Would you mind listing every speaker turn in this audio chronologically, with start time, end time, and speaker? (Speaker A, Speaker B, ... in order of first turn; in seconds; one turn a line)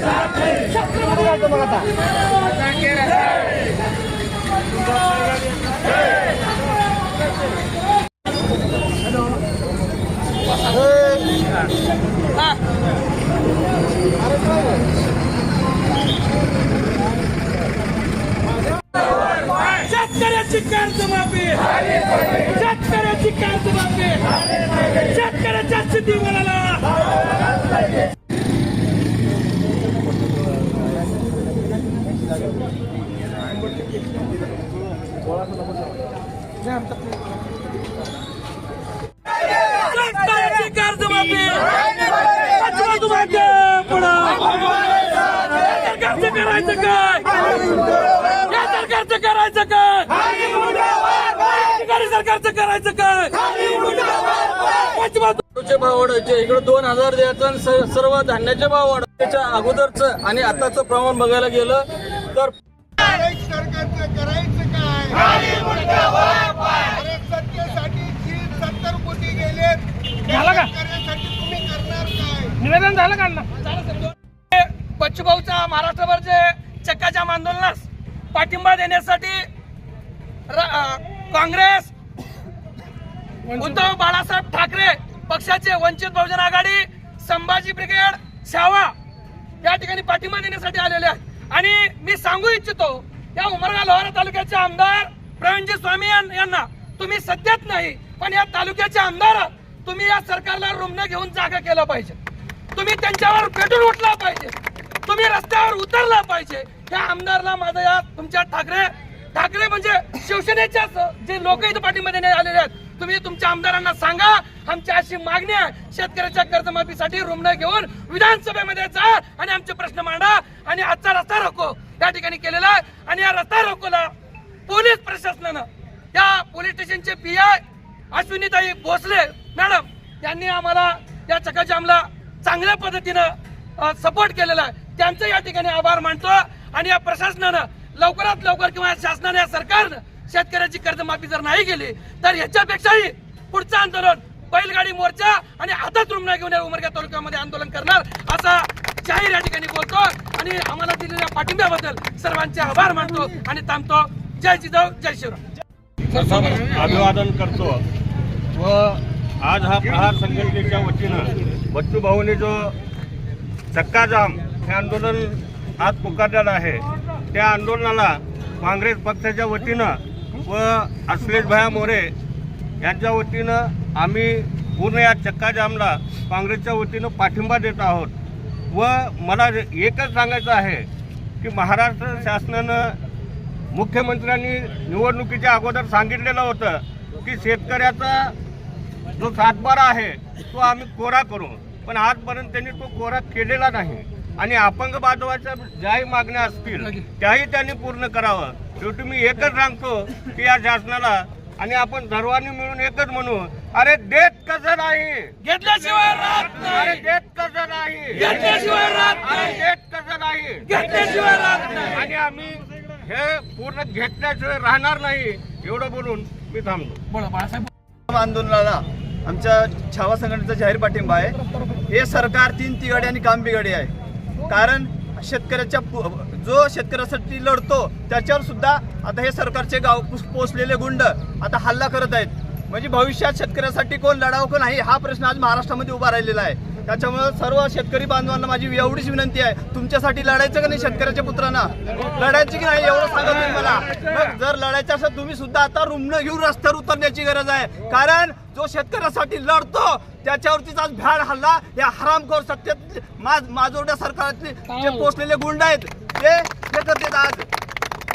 Speaker A: 0.6-1.8
Speaker A: 19.3-26.9
Speaker A: 39.5-47.9
Speaker A: 48.4-55.4
Speaker B: 55.5-62.5
Speaker C: 63.5-64.9
Speaker C: 67.8-69.8
Speaker C: 71.0-72.4
Speaker A: 73.5-79.5
Speaker A: 80.5-81.9
Speaker A: 83.5-88.9
Speaker A: 89.6-102.2
Speaker A: 102.7-124.1
Speaker A: 124.7-155.4
Speaker D: 156.1-157.8
Speaker A: 156.1-156.9
Speaker D: 158.6-162.7
Speaker D: 163.7-172.1
Speaker D: 172.8-178.1
Speaker D: 178.7-180.9
Speaker D: 181.4-183.0
Speaker D: 183.7-188.3
Speaker D: 189.2-205.3
Speaker A: 196.8-197.0
Speaker A: 205.4-207.0
Speaker D: 206.6-210.7
Speaker A: 208.1-209.5
Speaker A: 210.7-212.0
Speaker D: 211.9-217.0
Speaker A: 217.1-217.7
Speaker E: 218.1-223.9
Speaker E: 224.4-257.5
Speaker A: 254.7-255.1